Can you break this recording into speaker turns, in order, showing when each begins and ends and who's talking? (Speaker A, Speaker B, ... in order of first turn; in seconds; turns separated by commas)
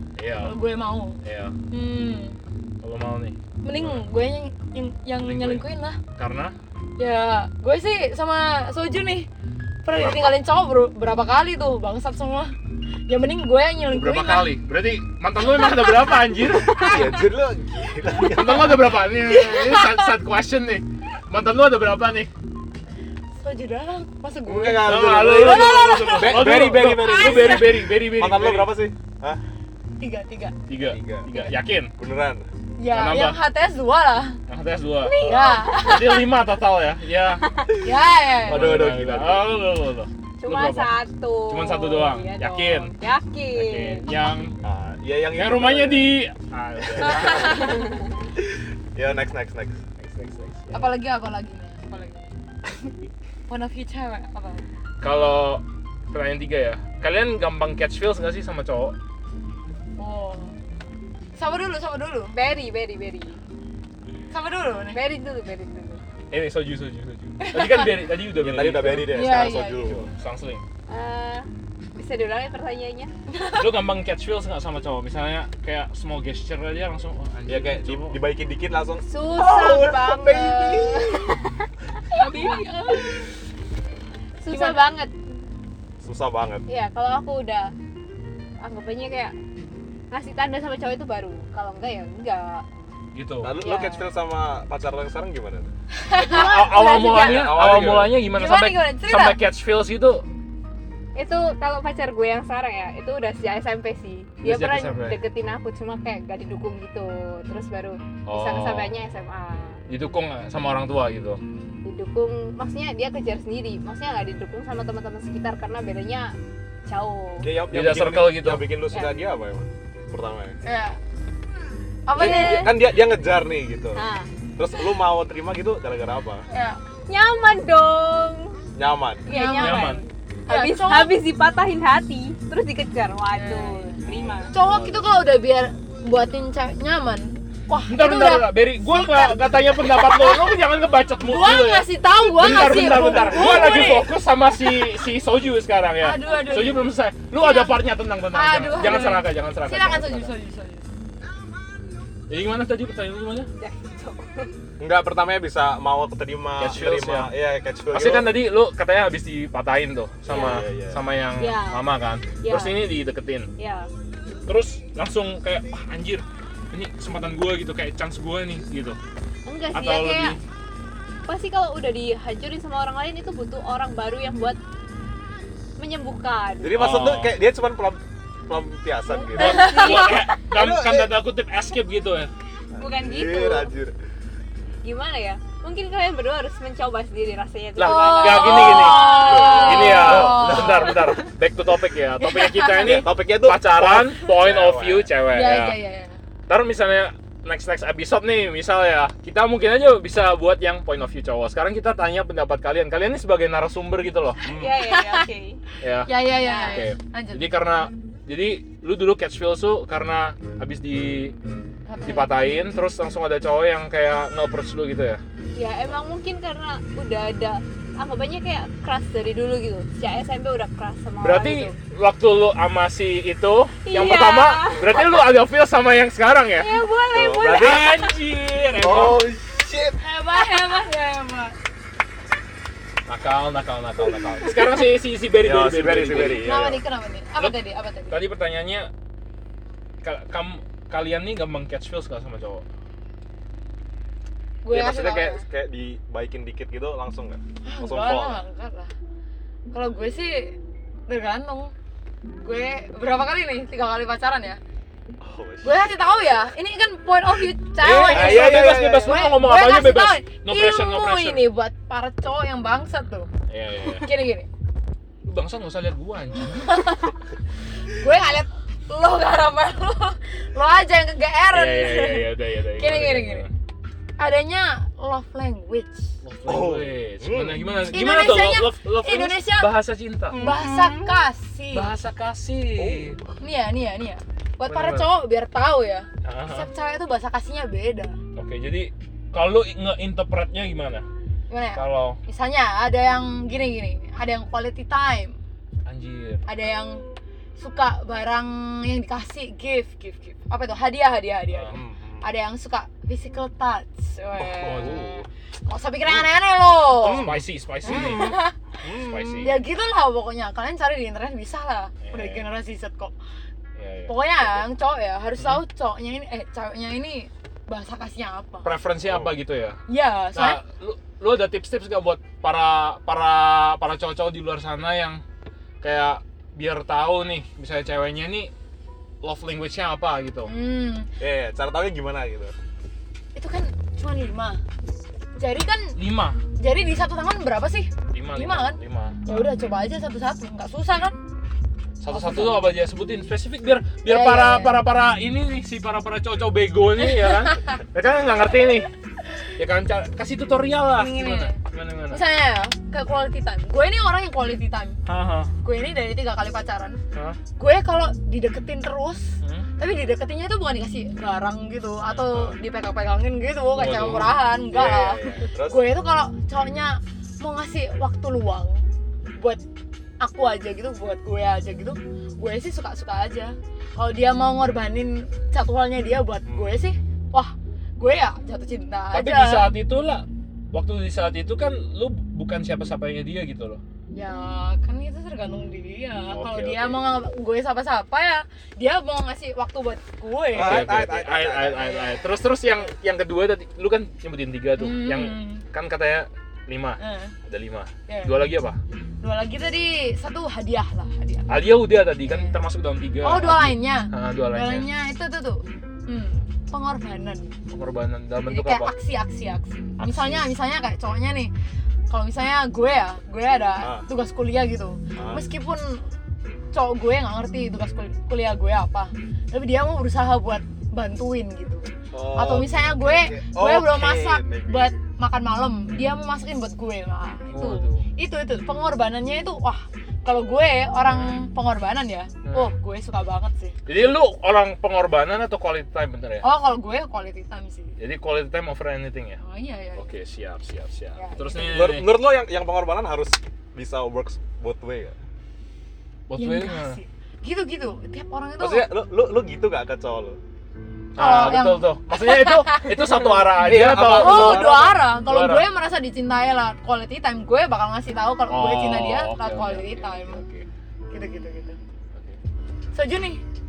Speaker A: 0.2-0.6, Speaker B: 0.4-1.2, Speaker A: 1.2-1.6, Speaker B: 1.7-2.4, Speaker A: 2.8-4.1, Speaker B: 3.6-6.0, Speaker A: 5.3-6.6, Speaker B: 7.0-9.3, Speaker B: 9.8-12.6, Speaker B: 13.1-14.6, Speaker A: 13.9-17.1, Speaker C: 16.7-18.9, Speaker A: 18.1-22.3, Speaker B: 19.2-20.1, Speaker B: 23.4-27.6, Speaker C: 24.4-29.4, Speaker A: 24.8-28.8, Speaker B: 30.0-30.6, Speaker A: 30.7-31.9, Speaker C: 30.8-31.3, Speaker C: 32.0-32.5, Speaker B: 32.8-34.4, Speaker A: 32.9-33.4, Speaker A: 34.5-37.5, Speaker D: 35.0-36.2, Speaker B: 35.2-36.3, Speaker B: 37.8-38.9, Speaker C: 38.5-39.6, Speaker A: 38.5-40.9, Speaker D: 40.4-44.0, Speaker A: 41.5-42.9, Speaker A: 43.5-44.6, Speaker C: 44.6-46.1, Speaker A: 45.3-47.9, Speaker C: 46.8-47.8, Speaker D: 47.5-47.9, Speaker C: 48.4-49.8, Speaker A: 50.0-50.9, Speaker B: 50.7-52.3, Speaker B: 53.5-54.6, Speaker A: 55.0-59.0, Speaker B: 60.0-60.5, Speaker B: 61.4-62.4, Speaker D: 62.3-63.4, Speaker B: 64.3-65.0, Speaker D: 64.9-66.0, Speaker A: 66.3-70.6, Speaker B: 67.4-67.9, Speaker C: 68.3-70.1, Speaker B: 69.1-70.0, Speaker D: 70.9-73.1, Speaker B: 73.3-73.7, Speaker A: 73.6-78.2, Speaker C: 77.5-81.3, Speaker D: 79.0-81.7, Speaker B: 82.1-83.2, Speaker D: 84.4-85.1, Speaker B: 84.5-84.8, Speaker C: 86.0-86.7, Speaker D: 86.7-87.7, Speaker D: 88.6-89.3, Speaker D: 90.1-92.7, Speaker A: 93.1-93.5, Speaker C: 93.4-95.7, Speaker D: 93.6-94.1, Speaker B: 96.0-96.8, Speaker D: 96.2-98.0, Speaker A: 96.3-100.3, Speaker C: 97.0-98.2, Speaker B: 98.3-99.4, Speaker D: 101.2-109.8, Speaker A: 104.4-105.2, Speaker A: 108.3-108.9, Speaker A: 109.9-111.4, Speaker D: 111.8-116.3, Speaker D: 116.9-117.5, Speaker C: 117.4-120.6, Speaker A: 117.7-118.7, Speaker B: 120.6-121.0, Speaker B: 122.1-122.7, Speaker D: 122.1-122.9, Speaker C: 122.2-124.0, Speaker D: 123.9-125.0, Speaker C: 124.6-126.5, Speaker B: 126.5-126.8, Speaker D: 127.1-128.6, Speaker C: 128.8-129.3, Speaker D: 129.3-134.5, Speaker B: 129.3-131.2, Speaker A: 129.6-130.0, Speaker B: 133.3-134.0, Speaker C: 134.1-134.7, Speaker B: 134.5-140.5, Speaker A: 134.7-135.0, Speaker A: 137.9-150.3, Speaker B: 141.2-144.2, Speaker B: 146.0-150.9, Speaker A: 152.3-153.5, Speaker D: 153.6-154.5, Speaker C: 154.8-158.3, Speaker A: 156.6-157.3, Speaker A: 157.9-163.5, Speaker D: 160.3-160.6, Speaker C: 160.3-161.0, Speaker D: 161.4-161.8, Speaker D: 162.4-162.8, Speaker D: 163.6-163.9, Speaker A: 164.5-169.0, Speaker D: 169.5-170.4, Speaker A: 169.7-170.4, Speaker D: 171.3-174.6, Speaker D: 175.8-176.8, Speaker C: 176.6-179.7, Speaker A: 176.7-177.3, Speaker B: 179.3-179.9, Speaker D: 179.3-180.3, Speaker A: 179.4-182.3, Speaker C: 180.5-181.1, Speaker C: 182.7-184.0, Speaker D: 182.8-183.7, Speaker D: 184.8-190.3, Speaker A: 187.8-195.8, Speaker B: 187.8-191.0, Speaker C: 189.2-191.2, Speaker B: 192.2-193.0, Speaker C: 192.8-195.1, Speaker B: 195.3-196.2, Speaker A: 196.5-204.4, Speaker C: 204.4-204.8, Speaker D: 204.5-205.6, Speaker B: 204.8-205.2, Speaker A: 205.8-211.4, Speaker B: 206.1-207.5, Speaker D: 206.4-206.9, Speaker B: 211.9-212.3, Speaker A: 212.1-215.2, Speaker D: 215.6-221.8, Speaker A: 221.2-226.7, Speaker D: 223.9-225.2, Speaker D: 226.6-228.1, Speaker C: 227.1-228.0, Speaker A: 227.5-229.3, Speaker C: 228.8-230.0, Speaker B: 230.0-231.6, Speaker D: 230.4-230.9, Speaker A: 233.1-236.7, Speaker C: 235.3-236.8, Speaker B: 236.4-238.2, Speaker A: 238.1-238.9, Speaker A: 240.0-242.7, Speaker B: 244.6-245.4, Speaker C: 244.7-248.4, Speaker B: 247.6-248.9, Speaker B: 249.7-251.7, Speaker B: 252.4-254.6, Speaker C: 255.2-255.9, Speaker B: 255.6-263.3, Speaker C: 257.8-259.3, Speaker A: 257.9-261.4, Speaker A: 263.5-264.1, Speaker B: 264.0-264.5, Speaker A: 265.2-266.9, Speaker B: 266.6-267.1, Speaker B: 267.9-273.5, Speaker A: 271.5-273.5, Speaker B: 274.2-276.2, Speaker A: 276.2-280.4, Speaker C: 276.4-277.6, Speaker B: 277.9-279.7, Speaker D: 280.3-281.2, Speaker B: 280.3-281.9, Speaker A: 281.7-283.2, Speaker C: 282.8-283.3, Speaker B: 283.4-288.2, Speaker A: 284.7-285.1, Speaker A: 286.2-286.7, Speaker A: 288.4-291.1, Speaker B: 291.5-295.4, Speaker A: 291.8-292.2, Speaker A: 295.9-296.4, Speaker B: 296.5-297.0, Speaker B: 297.6-307.3, Speaker A: 301.5-301.8, Speaker C: 301.7-302.3, Speaker A: 304.5-305.3, Speaker C: 304.6-305.1, Speaker C: 307.0-309.6, Speaker A: 307.1-308.3, Speaker B: 307.9-313.1, Speaker A: 308.9-309.6, Speaker A: 312.0-312.5, Speaker A: 313.8-314.6, Speaker B: 314.1-318.8, Speaker A: 318.6-319.8, Speaker C: 319.0-319.4, Speaker B: 319.9-320.6, Speaker A: 320.4-325.2, Speaker A: 325.8-328.5, Speaker A: 329.2-330.5, Speaker B: 330.5-331.1, Speaker C: 331.2-332.6, Speaker B: 333.4-334.6, Speaker B: 335.4-336.0, Speaker A: 336.0-336.4, Speaker B: 336.6-341.2, Speaker A: 338.1-339.3, Speaker A: 342.0-348.9, Speaker B: 342.1-342.7, Speaker B: 344.1-344.8, Speaker B: 347.0-347.8, Speaker A: 349.6-352.2, Speaker B: 351.0-351.6, Speaker B: 352.1-355.0, Speaker A: 355.1-355.5, Speaker B: 355.6-357.0, Speaker B: 357.6-368.8, Speaker A: 359.4-359.7, Speaker A: 362.1-362.6, Speaker A: 363.7-364.4, Speaker C: 364.7-365.9, Speaker B: 370.2-379.7, Speaker C: 376.5-376.8, Speaker A: 379.1-383.8, Speaker B: 384.1-390.9, Speaker A: 386.3-387.0, Speaker C: 390.5-392.1, Speaker A: 390.6-398.8, Speaker B: 394.8-395.6, Speaker B: 397.0-397.4, Speaker B: 398.1-398.4, Speaker B: 399.2-401.5, Speaker A: 401.5-404.9, Speaker B: 402.2-402.6, Speaker B: 403.2-407.5, Speaker A: 407.7-408.9, Speaker B: 408.5-411.5, Speaker A: 410.0-410.5, Speaker B: 412.1-416.0, Speaker C: 413.8-414.1, Speaker C: 415.2-415.5, Speaker B: 416.7-433.8, Speaker C: 422.1-424.9, Speaker A: 427.5-428.1, Speaker A: 431.1-431.4, Speaker A: 432.4-432.7, Speaker A: 433.9-436.5, Speaker B: 436.4-438.0, Speaker A: 438.0-439.4, Speaker B: 439.4-440.1, Speaker A: 440.0-442.1, Speaker B: 441.2-441.8, Speaker C: 441.6-445.2, Speaker A: 446.3-447.0, Speaker B: 446.4-448.9, Speaker C: 448.6-450.4, Speaker A: 451.1-455.7, Speaker B: 451.2-453.4, Speaker C: 453.5-455.0, Speaker B: 454.1-460.4, Speaker A: 458.5-460.7, Speaker B: 461.1-461.8, Speaker B: 462.9-463.4